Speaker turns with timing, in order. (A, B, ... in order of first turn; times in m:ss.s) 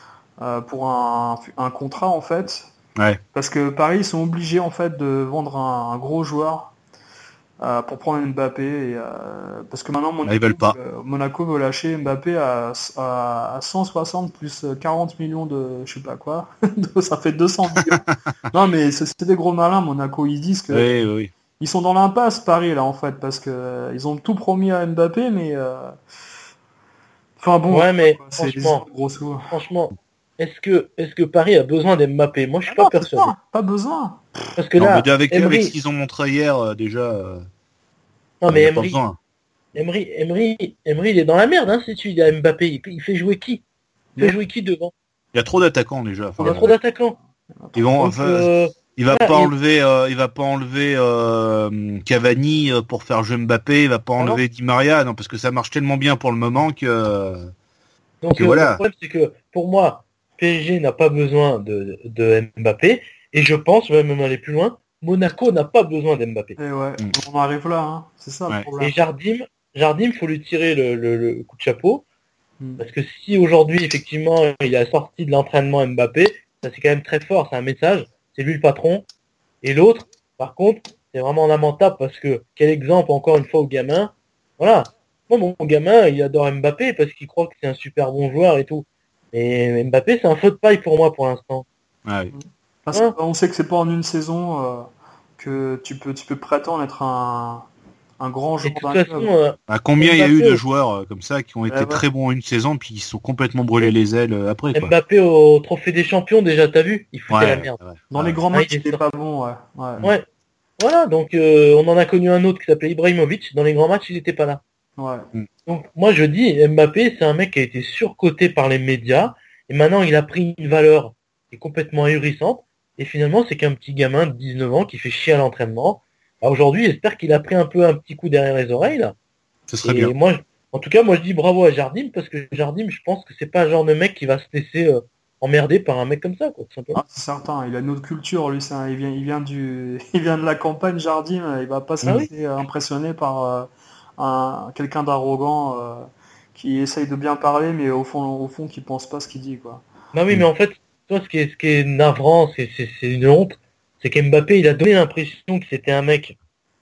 0:00.4-0:02.7 A
0:03.3-0:06.7 A
0:07.6-0:20.9 A
0:10.2-0:10.7 B
0:20.7-0:21.3 B
0:21.6-0:25.9 A
0:27.4-0:29.5 A
0:27.7-0:28.8 C
0:29.5-0:33.3 C
0:32.7-0:34.4 A
0:34.6-0:35.7 C
0:34.8-0:37.4 B
0:38.4-0:39.0 C
0:38.5-0:39.2 B
0:39.7-0:43.6 C
0:44.2-0:44.9 C
0:45.3-0:46.8 B
0:46.4-0:47.2 C
0:47.7-0:57.5 B
0:48.0-0:49.5 C
0:58.2-1:06.6 C
0:58.3-0:58.8 B
1:06.6-1:08.9 A
1:08.8-1:12.0 C
1:12.8-1:19.0 C
1:19.6-1:31.6 C
1:32.0-1:32.3 B
1:32.3-1:37.6 A
1:38.2-1:39.3 A
1:38.6-1:40.6 C
1:39.7-1:44.9 B
1:41.7-1:42.0 A
1:44.7-1:47.8 C
1:47.3-1:48.4 B
1:48.1-1:50.1 A
1:48.5-1:49.0 C
1:50.8-1:54.6 C
1:55.0-1:55.3 A
1:55.6-2:09.1 C
2:09.7-2:10.1 B
2:09.8-2:17.0 C
2:16.9-2:29.8 A
2:30.1-2:36.4 C